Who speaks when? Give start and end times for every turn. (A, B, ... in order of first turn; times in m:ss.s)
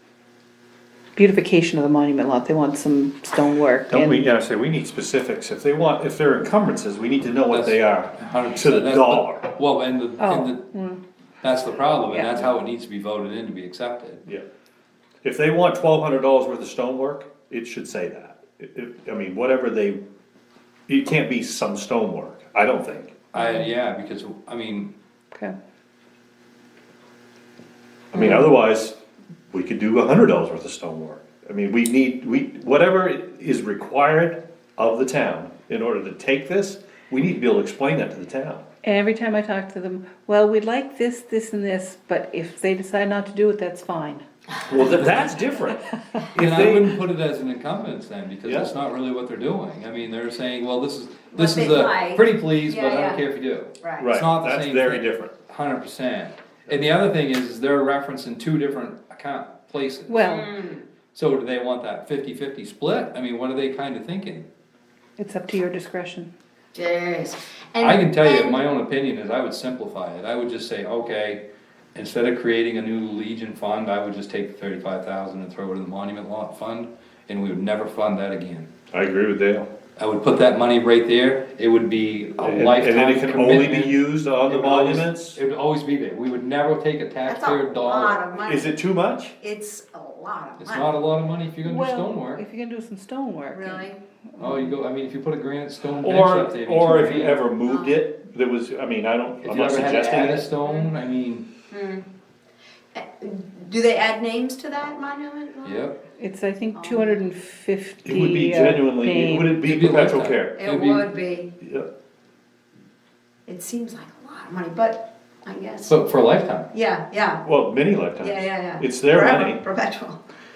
0:01.2-0:04.2 A
0:03.9-0:09.4 B
0:07.5-0:10.6 C
0:10.2-0:11.0 A
0:11.4-0:14.2 C
0:12.1-0:12.5 A
0:15.2-0:20.0 B
0:20.9-0:23.2 B
0:23.3-0:24.9 C
0:23.4-0:23.7 A
0:28.1-0:29.0 B
0:29.5-0:38.6 B
0:38.8-0:44.2 A
0:44.7-0:47.0 B
0:46.4-1:00.3 C
0:48.4-0:48.7 B
0:51.4-0:53.2 D
0:53.8-0:54.1 D
0:54.0-0:55.3 B
1:00.1-1:00.5 A
1:00.2-1:00.8 D
1:01.1-1:04.5 C
1:05.2-1:06.3 A
1:06.7-1:08.6 D
1:07.8-1:11.4 C
1:12.0-1:18.7 C
1:18.9-1:19.7 B
1:20.0-1:28.2 C
1:22.4-1:25.4 B
1:27.3-1:28.8 D
1:28.4-1:29.4 B
1:29.4-1:30.9 D
1:30.6-1:32.4 C
1:31.6-1:34.7 A
1:33.5-1:34.0 D
1:34.4-1:37.4 C
1:36.0-1:40.5 B
1:37.6-1:38.1 D
1:39.4-1:41.5 C
1:40.6-1:40.9 D
1:41.7-1:42.1 D
1:42.9-1:45.9 D
1:45.6-1:46.0 C
1:46.2-1:49.6 A
1:46.8-1:47.2 D
1:48.0-1:50.6 B
1:49.6-1:51.1 C
1:50.6-1:51.5 D
1:51.6-1:51.9 B
1:53.5-1:56.0 D
1:55.9-1:56.7 C
1:56.7-1:57.4 D
1:57.4-1:59.6 B
1:58.2-2:00.2 D